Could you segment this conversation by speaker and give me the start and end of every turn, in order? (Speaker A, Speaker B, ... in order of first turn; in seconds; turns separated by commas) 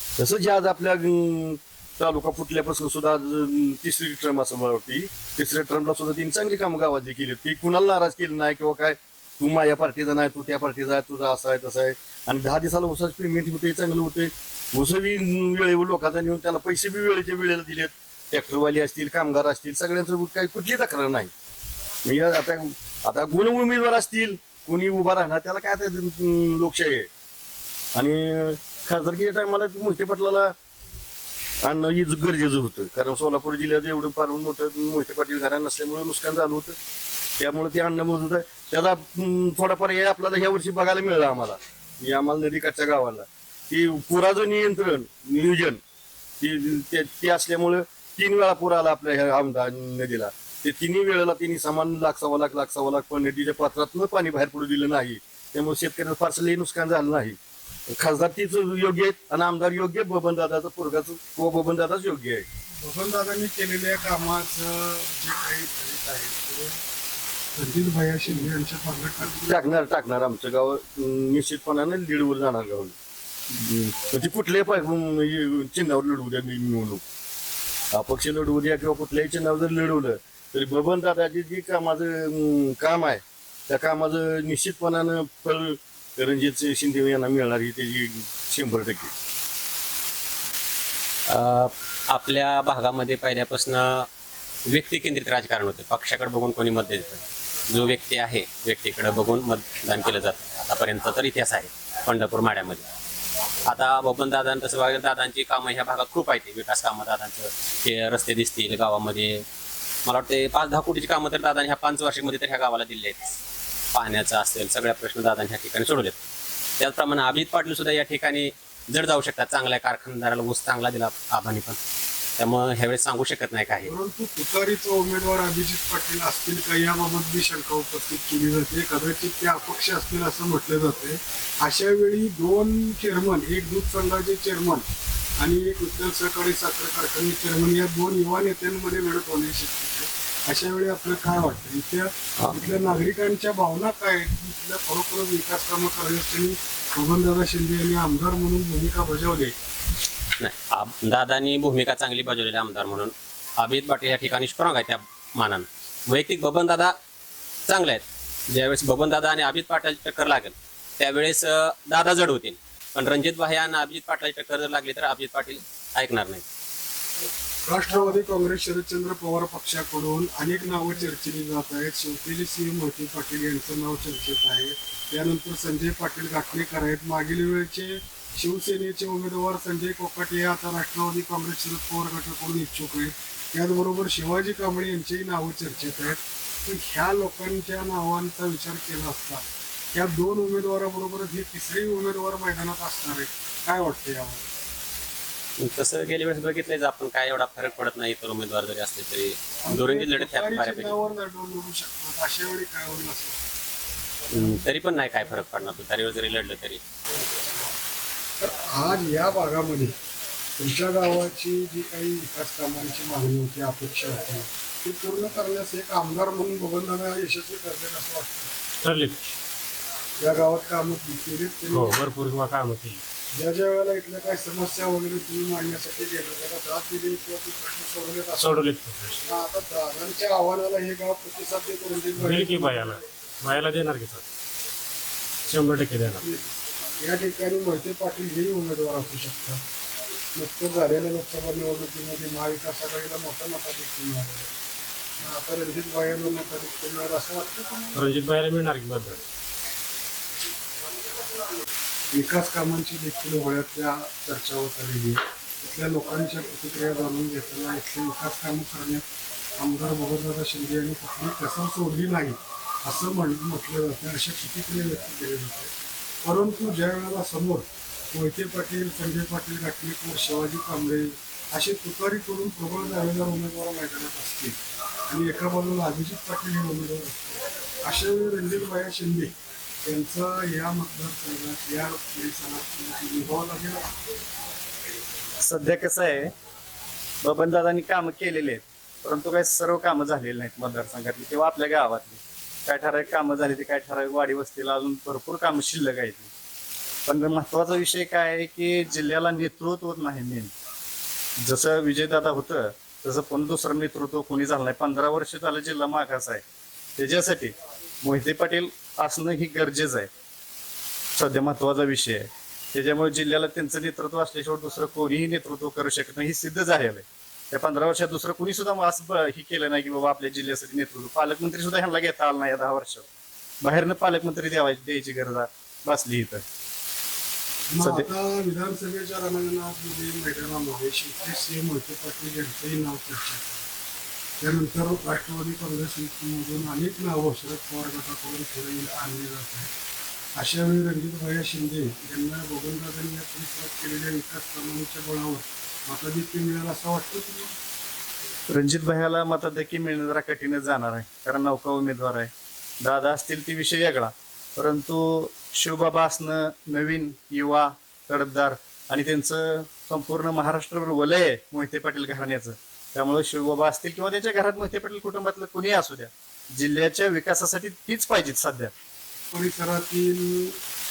Speaker A: 0.2-21.3, Speaker A: 22.1-27.1, Speaker A: 27.9-30.5, Speaker A: 31.6-36.7, Speaker A: 37.4-45.8, Speaker A: 46.4-57.4, Speaker A: 57.9-62.5, Speaker B: 62.8-66.8, Speaker B: 67.5-69.7, Speaker A: 69.5-73.0, Speaker A: 73.5-77.0, Speaker A: 77.9-89.1, Speaker C: 91.3-94.1, Speaker C: 94.7-102.8, Speaker C: 103.7-109.5, Speaker C: 110.0-113.3, Speaker C: 113.9-116.2, Speaker C: 116.8-121.8, Speaker C: 122.4-123.9, Speaker B: 123.8-134.8, Speaker B: 135.4-149.6, Speaker C: 150.4-156.9, Speaker C: 157.7-166.4, Speaker B: 167.7-194.5, Speaker C: 195.6-201.0, Speaker B: 199.6-203.4, Speaker C: 204.3-206.8, Speaker B: 208.4-209.9, Speaker B: 210.6-218.5, Speaker D: 218.8-219.3, Speaker B: 220.2-222.1, Speaker D: 221.7-223.0, Speaker B: 223.3-228.7, Speaker D: 228.4-229.2, Speaker B: 229.2-232.8, Speaker D: 232.2-234.2, Speaker D: 235.5-236.3, Speaker B: 236.2-236.5, Speaker B: 237.0-239.6, Speaker B: 240.3-244.5, Speaker B: 245.2-248.1, Speaker D: 247.9-249.2, Speaker B: 252.1-259.1, Speaker B: 259.6-265.7, Speaker B: 266.2-274.6, Speaker B: 275.1-279.3, Speaker B: 279.9-283.9, Speaker E: 285.4-286.3, Speaker E: 287.2-296.3, Speaker E: 297.1-300.5, Speaker E: 301.4-306.4, Speaker E: 307.0-310.1, Speaker E: 311.2-323.1, Speaker E: 323.6-326.4, Speaker B: 327.7-333.7, Speaker E: 327.8-328.1, Speaker B: 334.4-339.7, Speaker B: 340.4-347.5, Speaker E: 348.5-352.3, Speaker E: 352.8-368.7, Speaker B: 369.3-370.6